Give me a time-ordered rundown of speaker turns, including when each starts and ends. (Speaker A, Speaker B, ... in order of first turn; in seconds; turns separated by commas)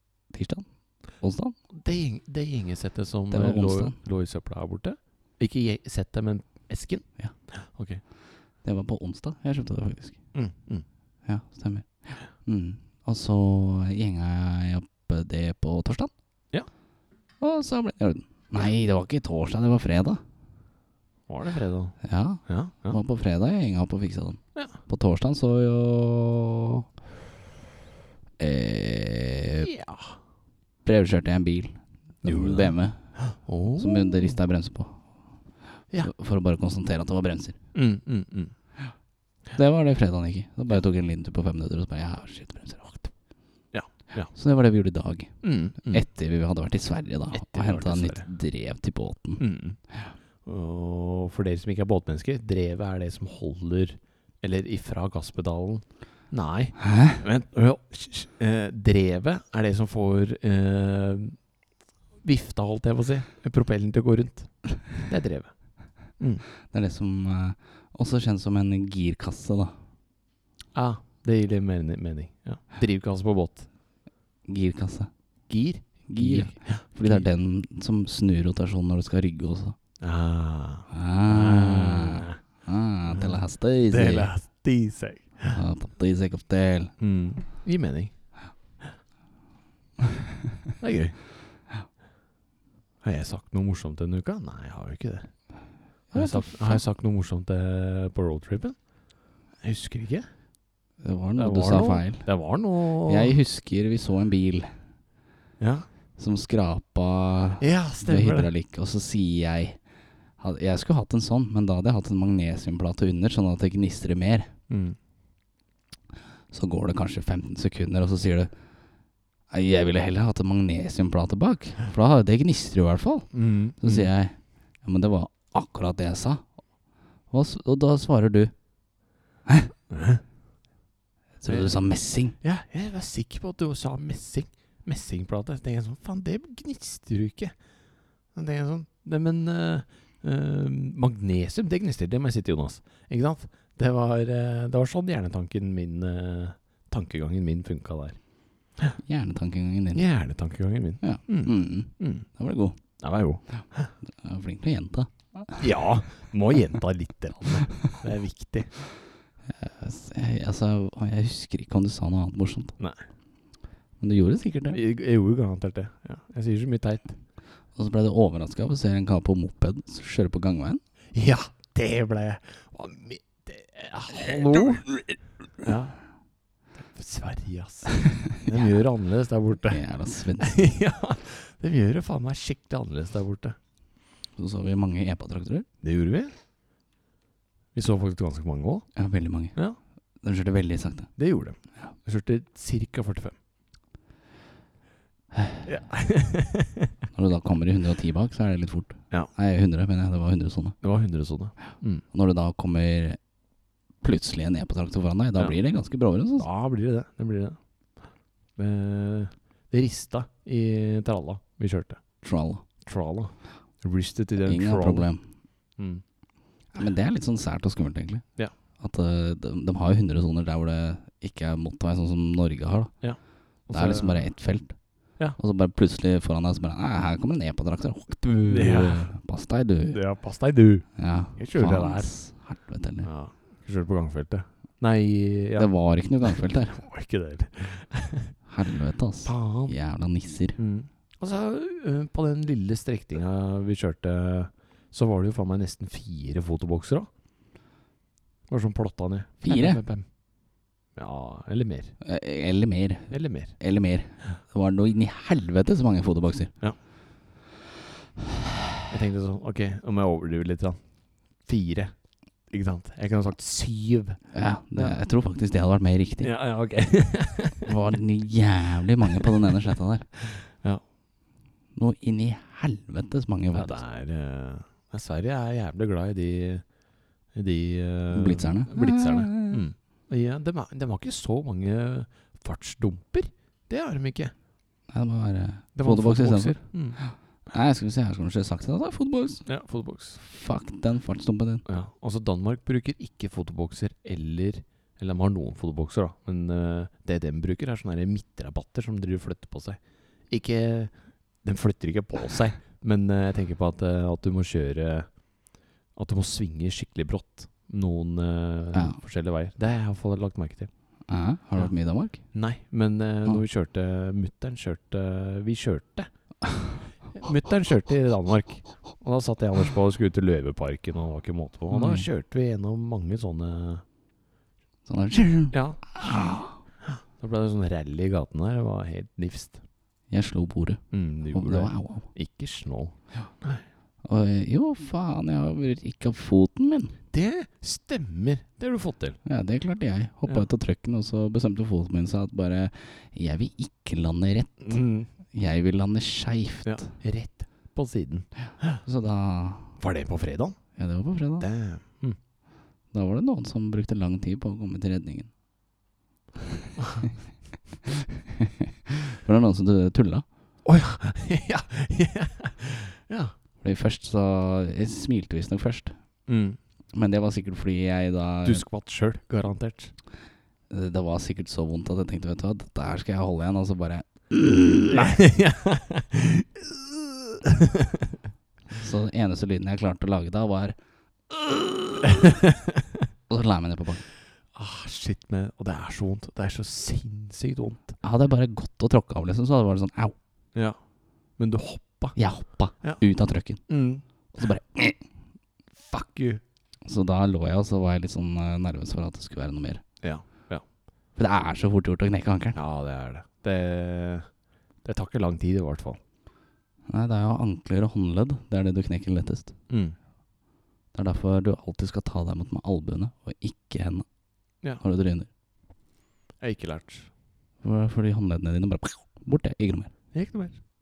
Speaker A: 0.3-1.6, Speaker B: 1.7-8.0, Speaker A: 3.3-4.0, Speaker A: 8.6-10.2, Speaker B: 10.3-10.8, Speaker A: 11.2-16.1, Speaker A: 17.4-20.2, Speaker B: 21.3-23.0, Speaker A: 22.0-26.9, Speaker A: 28.4-29.7, Speaker B: 29.6-30.1, Speaker A: 30.9-33.0, Speaker B: 32.2-34.4, Speaker A: 33.8-35.1, Speaker A: 36.0-37.6, Speaker B: 37.7-38.5, Speaker A: 39.5-43.1, Speaker B: 43.7-44.3, Speaker A: 44.3-49.4, Speaker B: 45.4-46.0, Speaker B: 47.3-48.3, Speaker B: 49.4-49.8, Speaker B: 50.4-61.4, Speaker A: 56.8-57.2, Speaker B: 62.2-65.5, Speaker B: 66.2-66.4, Speaker A: 66.6-69.8, Speaker B: 70.7-73.7, Speaker A: 74.5-75.1, Speaker B: 75.5-77.3, Speaker A: 76.1-79.8, Speaker B: 80.0-82.4, Speaker A: 80.9-84.3, Speaker B: 83.1-85.6, Speaker A: 85.5-86.9, Speaker B: 87.0-88.1, Speaker B: 90.8-91.2, Speaker B: 93.0-95.3, Speaker A: 96.1-96.8, Speaker B: 96.1-98.8, Speaker B: 99.6-100.2, Speaker A: 101.0-102.3, Speaker B: 101.4-103.4, Speaker A: 103.0-104.7, Speaker B: 105.6-105.9, Speaker A: 106.2-109.8, Speaker B: 107.6-108.5, Speaker A: 110.4-114.5, Speaker B: 114.7-115.0, Speaker A: 116.5-118.5, Speaker A: 119.5-126.5, Speaker B: 123.3-124.1, Speaker A: 127.3-128.5, Speaker B: 129.9-130.2, Speaker A: 131.4-132.4, Speaker B: 131.5-131.7, Speaker B: 132.4-137.5, Speaker B: 138.3-148.2, Speaker A: 149.0-150.0, Speaker B: 149.9-152.2, Speaker A: 151.0-152.8, Speaker B: 153.0-153.9, Speaker A: 154.1-155.6, Speaker B: 155.6-158.7, Speaker A: 159.5-162.7, Speaker A: 164.0-164.8, Speaker B: 164.7-167.2, Speaker A: 167.8-170.8, Speaker B: 171.1-174.9, Speaker B: 175.6-176.0, Speaker B: 176.8-179.8, Speaker A: 178.1-178.5, Speaker A: 179.7-180.6, Speaker B: 180.4-183.6, Speaker A: 184.4-185.7, Speaker B: 185.8-186.3, Speaker B: 187.8-188.9, Speaker A: 188.9-189.6, Speaker A: 190.2-191.1, Speaker B: 191.2-193.4, Speaker A: 195.3-195.6, Speaker B: 195.6-196.9, Speaker A: 197.1-200.8, Speaker B: 200.8-202.0, Speaker A: 202.1-203.2, Speaker A: 204.0-206.5, Speaker B: 206.4-207.6, Speaker B: 208.6-212.0, Speaker A: 212.2-212.6, Speaker B: 212.8-215.1, Speaker A: 214.4-215.2, Speaker B: 215.8-216.0, Speaker A: 216.7-218.2, Speaker A: 218.8-222.9, Speaker B: 223.0-224.2, Speaker A: 223.7-224.8, Speaker A: 225.4-230.0, Speaker B: 228.5-229.1, Speaker B: 229.9-232.1, Speaker A: 231.0-233.1, Speaker B: 233.0-235.7, Speaker A: 235.6-236.8, Speaker B: 236.3-238.3, Speaker A: 238.5-240.6, Speaker B: 239.2-239.8, Speaker B: 240.6-247.1, Speaker B: 248.5-250.1, Speaker A: 249.4-249.8, Speaker B: 250.9-251.9, Speaker A: 252.0-256.5, Speaker B: 253.1-253.6, Speaker B: 258.9-260.8, Speaker B: 261.4-261.9, Speaker B: 262.5-264.2, Speaker A: 264.3-266.3, Speaker B: 266.2-267.7, Speaker A: 267.6-270.1, Speaker B: 270.3-270.8, Speaker A: 271.8-273.8, Speaker B: 273.5-276.6, Speaker B: 277.3-284.3, Speaker A: 278.1-279.6, Speaker A: 284.9-289.5, Speaker B: 285.8-287.0, Speaker B: 289.4-290.2, Speaker A: 290.2-291.6, Speaker B: 291.6-299.8, Speaker B: 300.3-300.9, Speaker B: 301.4-305.1, Speaker B: 305.9-310.7, Speaker A: 311.1-312.2, Speaker B: 312.3-316.1, Speaker B: 317.1-323.8, Speaker A: 321.7-322.1, Speaker A: 324.9-326.6, Speaker B: 325.5-329.6, Speaker A: 330.1-332.1, Speaker B: 330.9-333.6, Speaker A: 334.1-337.0, Speaker B: 337.1-339.2, Speaker A: 339.2-346.9, Speaker B: 344.6-345.1, Speaker B: 346.6-348.8, Speaker A: 348.8-349.8, Speaker B: 349.8-350.6, Speaker A: 350.8-351.5, Speaker B: 351.4-352.2, Speaker A: 352.9-355.3, Speaker A: 357.9-360.2, Speaker B: 360.6-363.3, Speaker A: 363.6-365.9, Speaker B: 366.3-366.6, Speaker A: 366.9-368.6, Speaker B: 368.4-369.9, Speaker A: 370.7-375.1, Speaker B: 374.9-378.2, Speaker A: 378.7-380.8, Speaker A: 381.3-382.1, Speaker B: 382.0-383.1, Speaker A: 383.3-384.1, Speaker B: 384.5-387.9, Speaker A: 388.0-390.1, Speaker B: 391.4-392.2, Speaker A: 392.1-393.6, Speaker B: 393.7-394.0, Speaker A: 394.4-395.0, Speaker B: 395.8-396.4, Speaker A: 396.9-399.8, Speaker B: 400.0-400.6, Speaker A: 401.1-402.6, Speaker B: 402.6-404.3, Speaker B: 404.8-406.0, Speaker A: 406.9-409.6, Speaker B: 409.7-409.9, Speaker A: 410.9-414.1, Speaker A: 414.8-415.3, Speaker B: 416.4-417.1, Speaker A: 417.6-419.9, Speaker B: 420.1-420.6